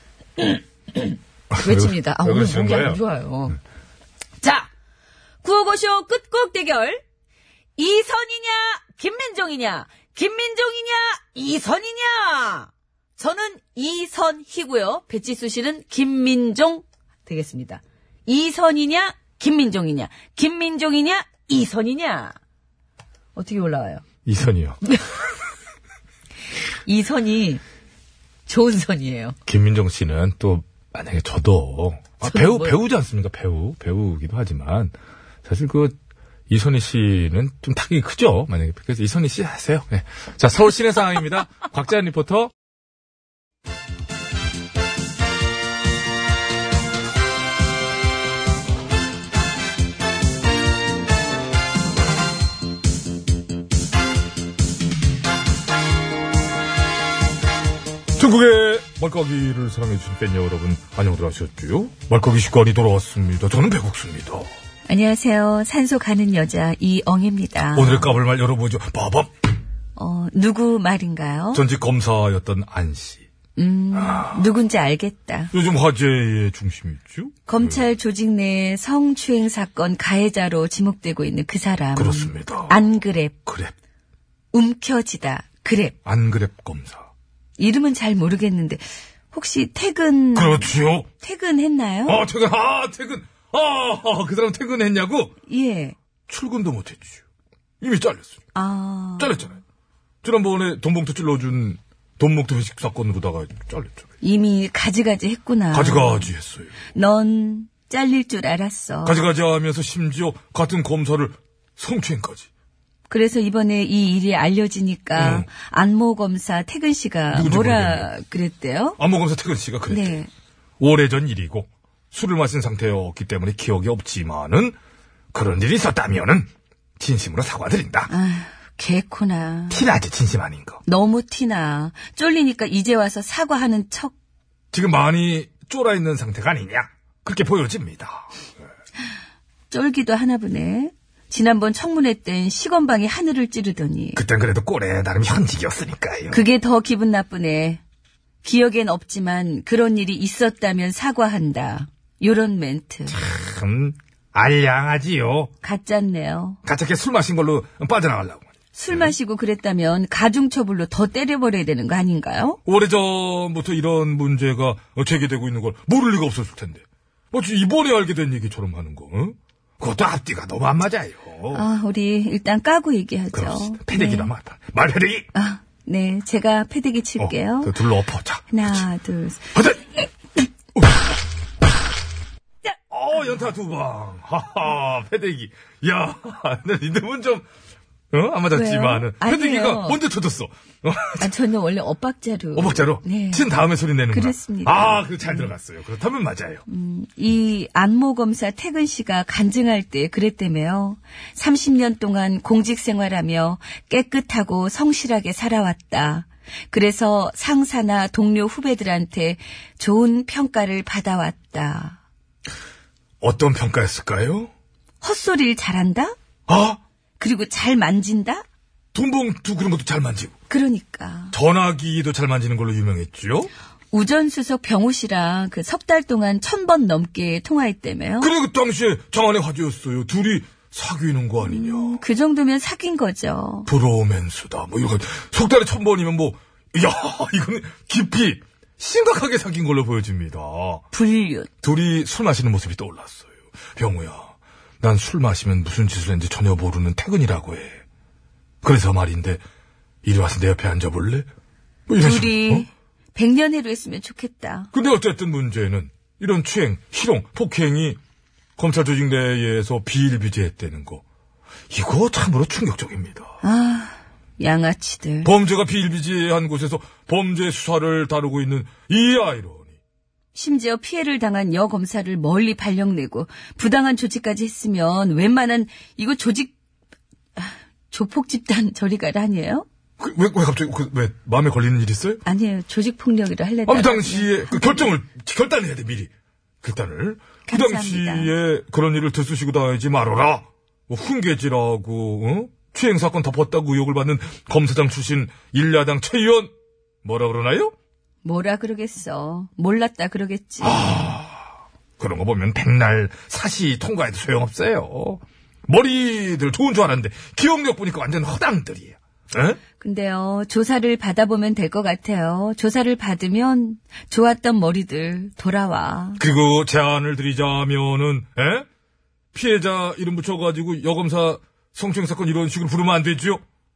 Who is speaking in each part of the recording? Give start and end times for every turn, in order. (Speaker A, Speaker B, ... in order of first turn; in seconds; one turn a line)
Speaker A: 0.4-3.6
Speaker B: 1.5-3.0
Speaker A: 4.4-4.7
Speaker A: 5.4-7.0
Speaker A: 7.8-22.4
Speaker A: 23.3-24.0
Speaker B: 24.2-24.8
Speaker A: 24.9-25.1
Speaker A: 26.9-27.6
Speaker A: 28.5-29.4
Speaker B: 29.5-34.9
Speaker A: 32.2-32.7
Speaker B: 35.4-36.0
Speaker B: 36.5-42.5
Speaker B: 58.2-64.5
Speaker A: 64.9-68.1
Speaker B: 67.7-69.3
Speaker A: 70.0-71.6
Speaker B: 71.5-73.2
Speaker A: 73.5-75.5
Speaker B: 73.9-74.4
Speaker B: 75.5-77.8
Speaker A: 77.5-83.3
Speaker B: 82.0-82.7
Speaker B: 83.5-83.7
Speaker A: 84.5-85.9
Speaker B: 86.0-87.1
Speaker A: 87.6-92.2
Speaker B: 90.3-91.1
Speaker B: 92.1-95.3
Speaker A: 95.5-95.9
Speaker B: 96.3-97.2
Speaker B: 97.8-98.4
Speaker A: 98.5-99.3
Speaker B: 99.2-99.6
Speaker B: 100.2-104.0
Speaker A: 104.2-106.3
Speaker B: 105.7-106.7
Speaker A: 106.9-109.2
Speaker B: 109.0-112.5
Speaker A: 113.1-119.0
Speaker B: 115.2-115.5
Speaker B: 117.3-118.1
Speaker B: 119.0-120.2
Speaker A: 119.9-120.3
Speaker B: 120.8-124.8
Speaker B: 125.3-126.5
Speaker B: 127.0-128.1
Speaker A: 128.1-129.8
Speaker B: 129.7-130.8
Speaker A: 130.8-134.1
Speaker B: 134.7-138.3
Speaker A: 139.7-144.2
Speaker B: 144.2-146.4
Speaker A: 146.3-147.8
Speaker A: 148.4-153.2
Speaker B: 153.1-155.5
Speaker A: 155.6-156.6
Speaker B: 156.6-159.1
Speaker A: 158.8-162.6
Speaker B: 162.7-171.6
Speaker A: 171.5-174.3
Speaker B: 173.3-175.3
Speaker A: 175.3-177.7
Speaker B: 177.2-178.8
Speaker A: 178.5-179.5
Speaker B: 179.5-179.8
Speaker B: 180.8-181.0
Speaker B: 182.9-187.5
Speaker B: 188.1-191.3
Speaker A: 188.5-190.0
Speaker A: 191.2-193.5
Speaker B: 192.5-196.6
Speaker A: 194.1-195.5
Speaker A: 196.7-212.0
Speaker B: 213.2-214.5
Speaker A: 215.0-216.1
Speaker B: 216.5-216.8
Speaker A: 217.2-218.4
Speaker B: 218.9-220.3
Speaker A: 220.5-221.3
Speaker B: 221.3-223.5
Speaker A: 223.9-228.3
Speaker B: 228.2-232.0
Speaker A: 231.4-233.7
Speaker B: 233.7-240.8
Speaker A: 240.9-241.5
Speaker B: 241.6-247.8
Speaker B: 248.6-249.4
Speaker B: 250.0-251.3
Speaker B: 251.9-252.7
Speaker A: 251.9-254.7
Speaker B: 254.7-258.0
Speaker B: 258.6-261.0
Speaker B: 261.7-263.3
Speaker A: 263.4-265.3
Speaker B: 265.2-269.7
Speaker A: 270.3-276.5
Speaker A: 277.4-279.6
Speaker B: 280.0-282.2
Speaker A: 282.2-284.9
Speaker B: 283.7-286.1
Speaker B: 286.6-296.5
Speaker A: 287.5-288.3
Speaker B: 297.0-297.7
Speaker A: 298.2-300.9
Speaker B: 300.6-301.4
Speaker B: 302.0-309.6
Speaker A: 309.8-316.2
Speaker B: 316.2-318.6
Speaker B: 319.3-323.4